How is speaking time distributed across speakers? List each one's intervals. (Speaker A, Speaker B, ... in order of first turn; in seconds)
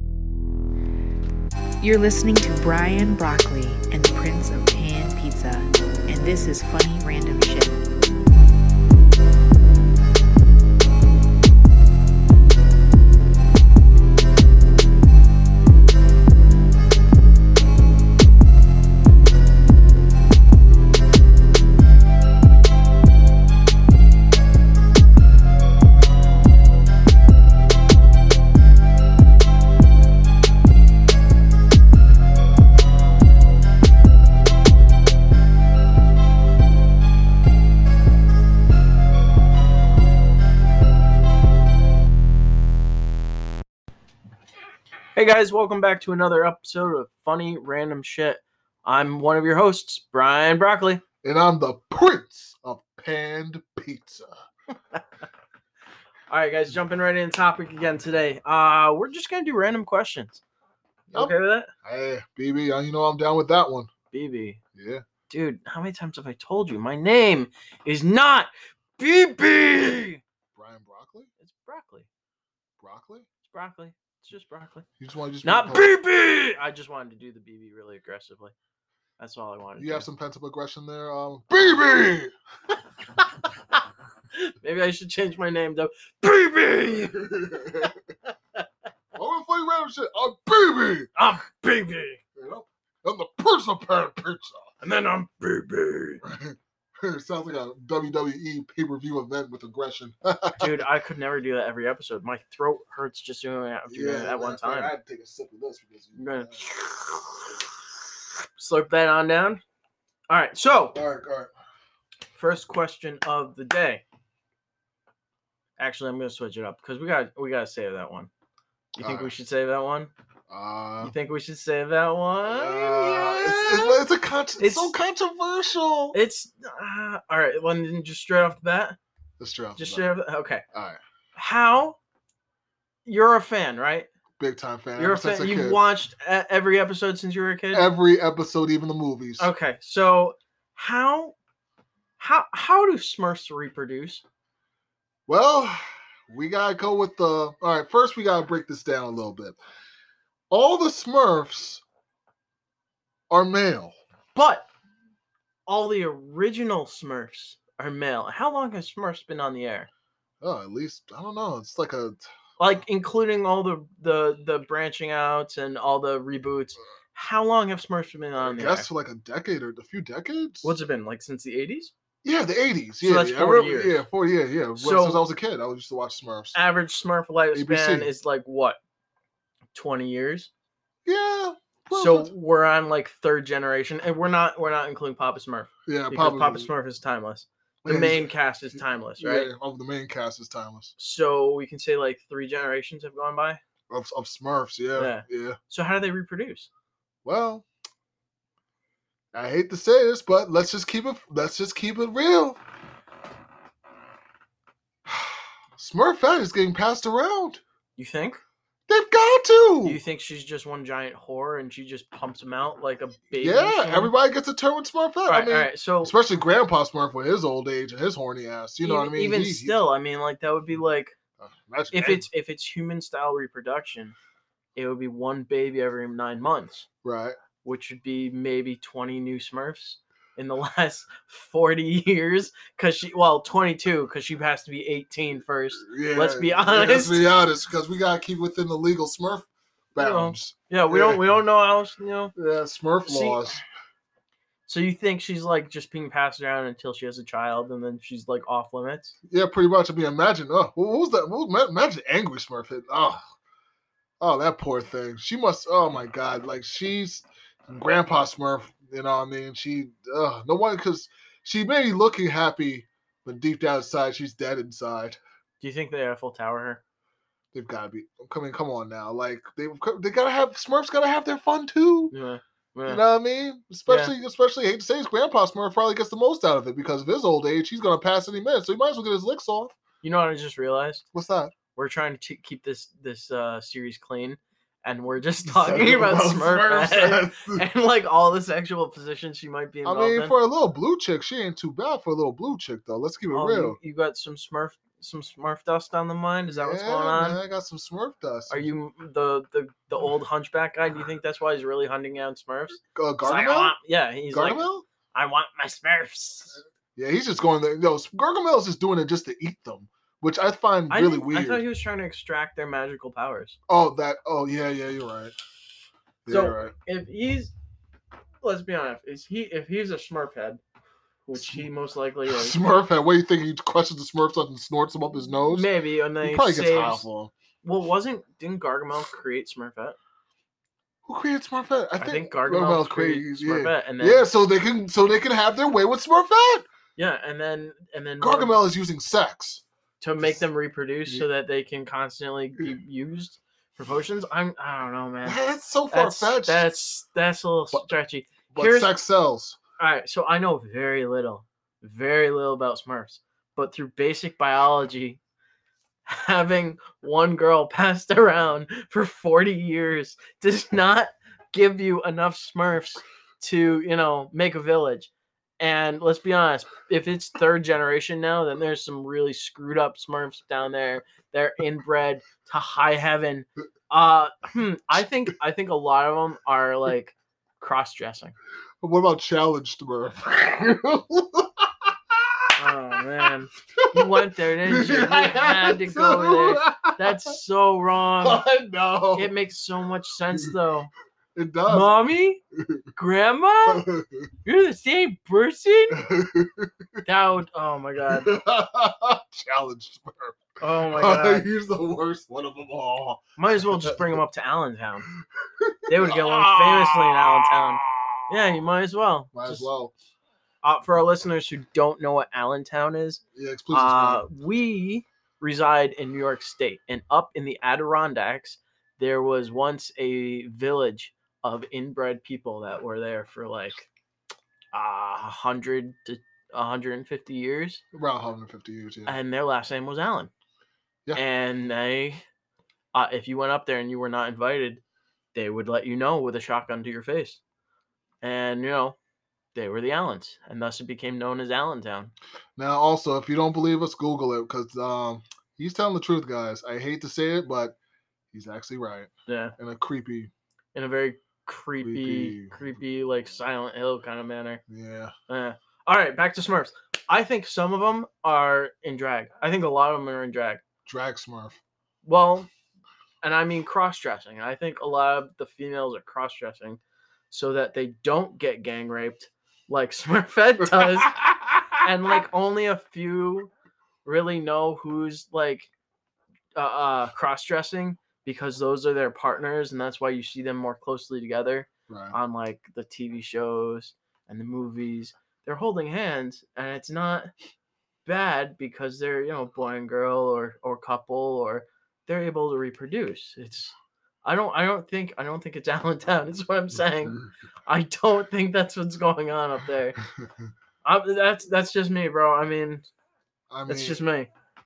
Speaker A: 1.8-7.8
Speaker B: 45.1-51.0, 56.3-60.4, 61.1-61.7, 64.1-64.6, 65.3-70.2, 71.4-72.1, 73.4-74.9, 75.4-78.5, 79.2-80.1, 83.2-83.8, 84.3-88.6, 91.2-92.2, 94.8-96.2, 100.6-104.9, 106.2-107.5, 108.6-109.6, 110.3-111.0, 112.3-114.0, 115.8-118.3, 118.9-120.1, 121.0-124.0, 124.6-124.9, 126.1-129.0, 129.8-130.6, 131.3-132.0, 133.1-134.1, 135.0-137.9, 139.4-141.3, 142.2-144.2, 154.3-154.7, 155.7-159.9, 162.6-168.9, 170.6-171.9, 173.0-174.0, 174.8-175.2, 176.5-178.8, 179.7-180.5, 181.9-189.5, 191.0-193.6, 195.0-196.7, 208.0-208.4, 209.8-214.1, 215.3-216.2, 218.8-221.2, 221.9-224.2, 224.8-226.9, 227.6-237.3, 240.0-242.3, 243.1-243.6, 244.7-249.2, 265.6-266.8, 272.1-273.0, 273.9-274.1, 280.0-281.1, 281.8-290.4, 293.3-297.4, 298.5-306.6, 310.9-313.6, 316.3-317.5, 318.4-320.6, 321.2-322.6, 325.5-327.1, 327.6-330.0, 332.0-334.3, 337.0-338.6, 340.0-345.4, 345.9-348.9, 349.8-355.2, 356.1-378.4, 382.6-388.4, 389.1-390.9, 391.7-392.4, 393.0-393.9, 394.4-396.1, 397.1-398.3, 400.6-401.5, 403.4-405.1, 405.9-409.7, 410.6-423.9, 424.7-427.8, 429.1-430.3, 431.1-432.2, 432.9-434.8, 435.3-437.4, 438.2-439.0, 439.5-442.1, 449.3-449.6, 450.8-454.6, 455.3-460.6, 462.0-462.5, 463.2-466.8, 467.3-471.2, 471.8-473.5, 474.1-475.7, 476.6-487.3, 488.1-500.0, 500.8-502.9, 503.7-504.3
Speaker C: 51.2-54.3, 61.1-63.9, 64.8-65.0, 70.5-71.3, 72.8-73.3, 75.0-75.9, 79.8-82.3, 87.1-88.0, 89.1-91.1, 92.3-94.7, 96.2-100.8, 103.9-106.7, 110.9-111.5, 119.0-119.3, 120.5-121.2, 122.5-126.2, 129.4-130.1, 130.7-131.0, 134.4-135.8, 137.7-139.5, 145.3-149.6, 150.5-151.8, 153.3-153.9, 160.4-162.2, 168.4-170.8, 172.2-176.6, 177.5-178.1, 181.1-182.3, 185.9-186.7, 187.8-190.9, 193.9-195.6, 197.2-197.7, 199.3-202.6, 205.1-207.6, 208.9-210.0, 213.4-219.8, 221.4-222.3, 227.0-227.4, 235.8-241.2, 242.4-243.6, 249.3-253.2, 254.2-265.2, 267.5-272.1, 272.9-279.8, 281.1-281.5, 285.4-287.6, 289.9-293.8, 296.5-298.7, 302.9-303.8, 304.3-304.9, 306.9-311.6, 313.7-315.4, 316.2-316.7, 321.3-321.7, 322.3-325.7, 326.2-327.3, 331.1-336.7, 338.2-339.6, 345.2-346.7, 348.5-349.6, 378.8-382.6, 383.8-387.4, 388.2-389.3, 391.4-391.9, 392.6-392.8, 393.7-394.3, 395.9-397.0, 398.1-404.2, 405.4-408.4, 409.3-409.9, 413.4-414.2, 427.9-429.2, 442.6-447.8, 448.3-450.3, 451.8-452.7, 454.7-455.1, 460.9-461.6, 470.8-471.8, 481.9-482.2, 503.5-504.0